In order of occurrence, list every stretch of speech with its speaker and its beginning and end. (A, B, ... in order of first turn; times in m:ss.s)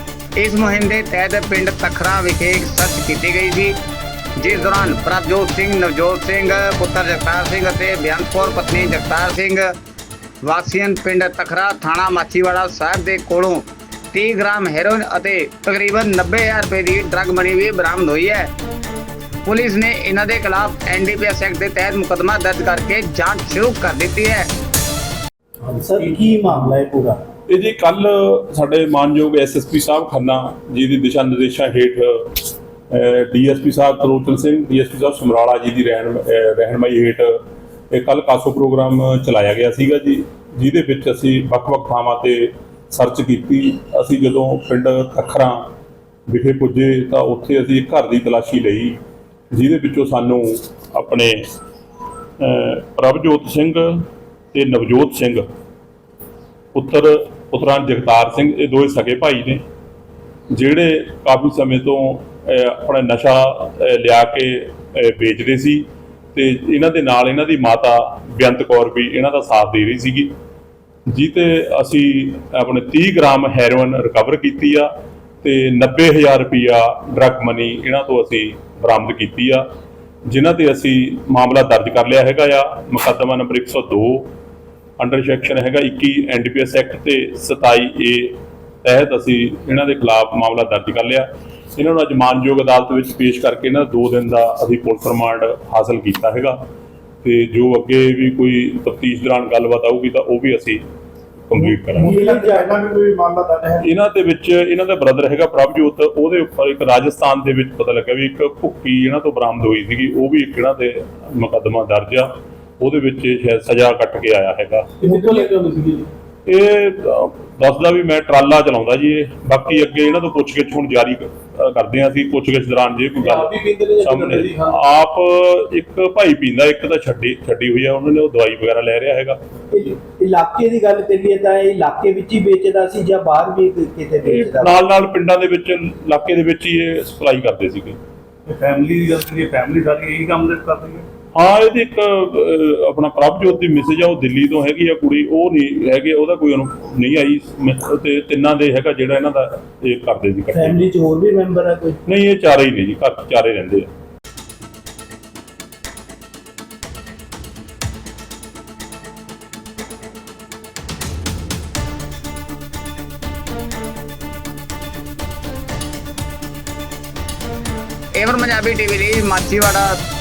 0:00.4-0:03.8 A
0:04.4-0:09.7 A
0:10.4-0:18.5 A
0:19.4-0:24.5 A
0:25.6-0:27.2 B
0:27.5-0:37.3 C
0:37.9-0:45.6 C
0:46.3-0:49.0 C
0:49.5-0:51.4 C
0:52.4-0:55.4 C
0:56.7-0:59.6 C
1:00.5-1:10.3 C
1:11.1-1:14.9 C
1:15.4-1:19.6 C
1:20.3-1:24.3 C
1:25.0-1:36.6 C
1:37.2-1:40.8 C
1:41.5-1:42.2 C
1:41.7-1:43.9 D
1:41.9-1:42.8 B
1:43.8-1:54.9 C
1:55.0-1:56.1 D
1:56.4-2:09.4 C
2:03.3-2:03.9 D
2:03.4-2:04.5 E
2:09.7-2:14.8 B
2:14.2-2:18.0 C
2:19.4-2:19.8 E
2:20.5-2:21.0 E
2:21.3-2:30.8 C
2:30.5-2:32.0 B
2:32.0-2:33.9 C
2:48.2-2:50.0 A